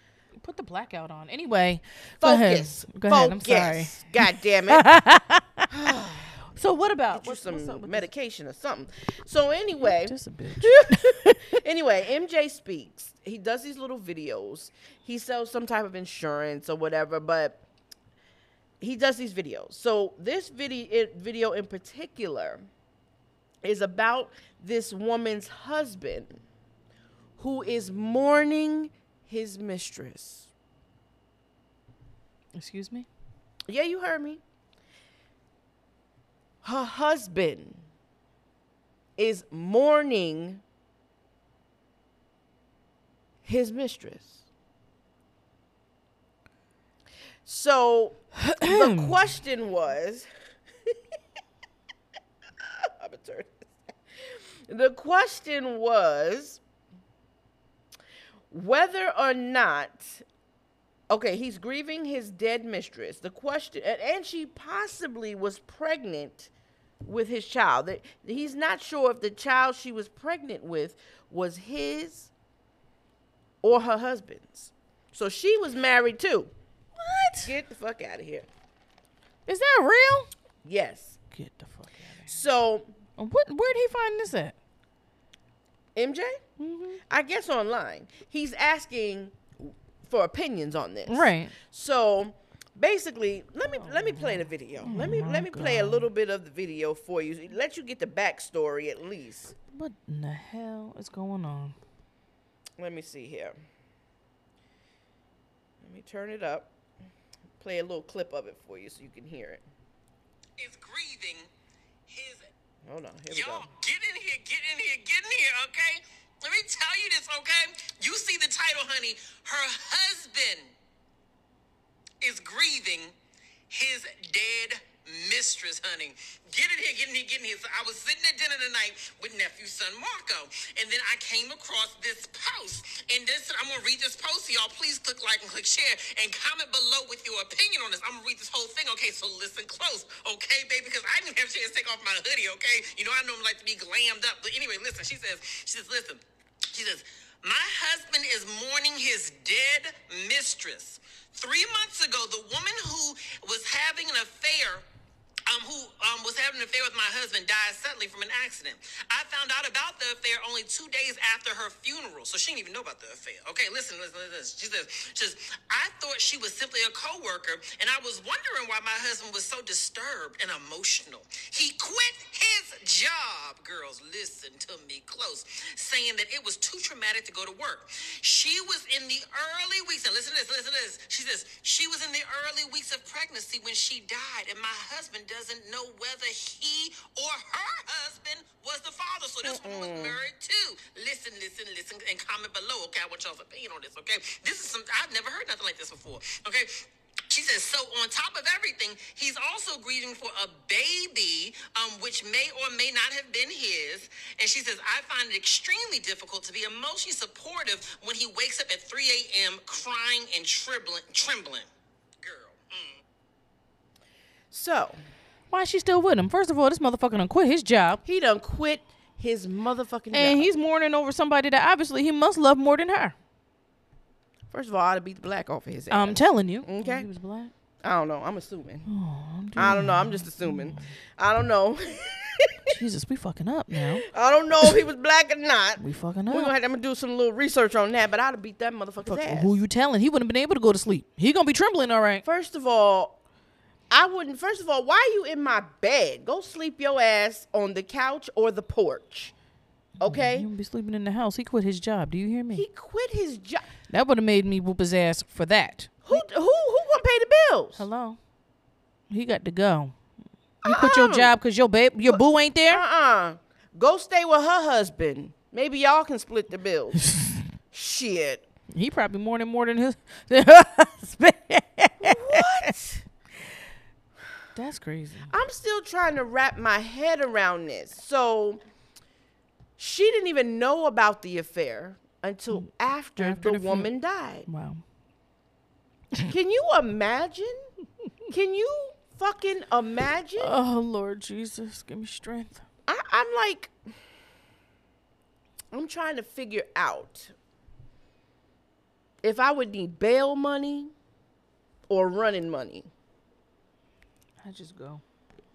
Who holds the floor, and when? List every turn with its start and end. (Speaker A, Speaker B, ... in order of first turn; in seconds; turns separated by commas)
Speaker A: 0.4-5.7, Speaker B: 2.2-4.9, Speaker B: 5.7-6.5, Speaker A: 6.5-8.1, Speaker B: 7.1-17.6, Speaker A: 9.8-11.6, Speaker B: 18.8-22.7, Speaker B: 23.6-26.4, Speaker B: 27.4-30.5, Speaker A: 32.5-33.1, Speaker B: 33.7-34.4, Speaker B: 36.6-37.8, Speaker B: 39.2-40.6, Speaker B: 43.4-44.4, Speaker B: 47.5-50.3, Speaker A: 48.4-49.2, Speaker B: 52.6-56.6, Speaker B: 58.5-60.2, Speaker B: 61.1-66.5, Speaker B: 67.0-72.3, Speaker B: 73.6-76.5, Speaker A: 77.0-77.5, Speaker B: 77.4-78.5, Speaker A: 79.5-80.3, Speaker B: 80.6-81.2, Speaker A: 81.3-82.3, Speaker B: 82.3-82.9, Speaker A: 83.2-84.5, Speaker B: 86.0-86.4, Speaker A: 86.6-87.0, Speaker B: 87.1-99.5, Speaker A: 91.1-91.6, Speaker A: 93.8-96.1, Speaker A: 99.7-101.8, Speaker B: 102.8-103.6, Speaker B: 105.8-106.7, Speaker B: 107.6-109.6, Speaker C: 110.6-111.5, Speaker C: 112.1-112.5, Speaker B: 112.8-113.7, Speaker C: 113.3-120.7, Speaker C: 122.2-123.1, Speaker C: 123.7-154.8, Speaker C: 155.5-211.7, Speaker B: 189.4-190.2, Speaker C: 212.2-213.0, Speaker B: 214.5-215.0, Speaker A: 215.5-218.0, Speaker B: 218.1-220.5, Speaker A: 220.1-223.2, Speaker B: 224.5-227.1, Speaker A: 225.9-227.5, Speaker B: 227.8-228.9, Speaker A: 228.9-230.9, Speaker B: 229.6-232.8, Speaker A: 232.7-234.1, Speaker B: 233.7-239.6, Speaker A: 235.8-236.5, Speaker A: 239.0-242.2, Speaker B: 242.2-243.2, Speaker B: 243.9-249.3, Speaker B: 250.0-250.5, Speaker A: 250.0-252.7, Speaker B: 252.5-253.7, Speaker A: 253.9-256.2, Speaker B: 256.1-257.9, Speaker A: 257.8-258.2, Speaker A: 259.1-259.9, Speaker B: 260.6-261.3, Speaker A: 260.6-262.8, Speaker B: 262.1-267.0, Speaker A: 267.0-267.4, Speaker B: 267.7-268.4, Speaker A: 268.7-272.8, Speaker B: 272.0-273.0, Speaker A: 274.5-275.3, Speaker B: 275.3-278.6, Speaker B: 279.8-284.5, Speaker A: 283.2-283.9, Speaker A: 284.5-284.8, Speaker B: 286.3-287.6, Speaker B: 288.3-290.5, Speaker A: 290.4-292.6, Speaker B: 292.9-293.8, Speaker B: 295.7-297.3, Speaker B: 299.2-300.9, Speaker B: 301.9-302.9, Speaker A: 304.4-305.0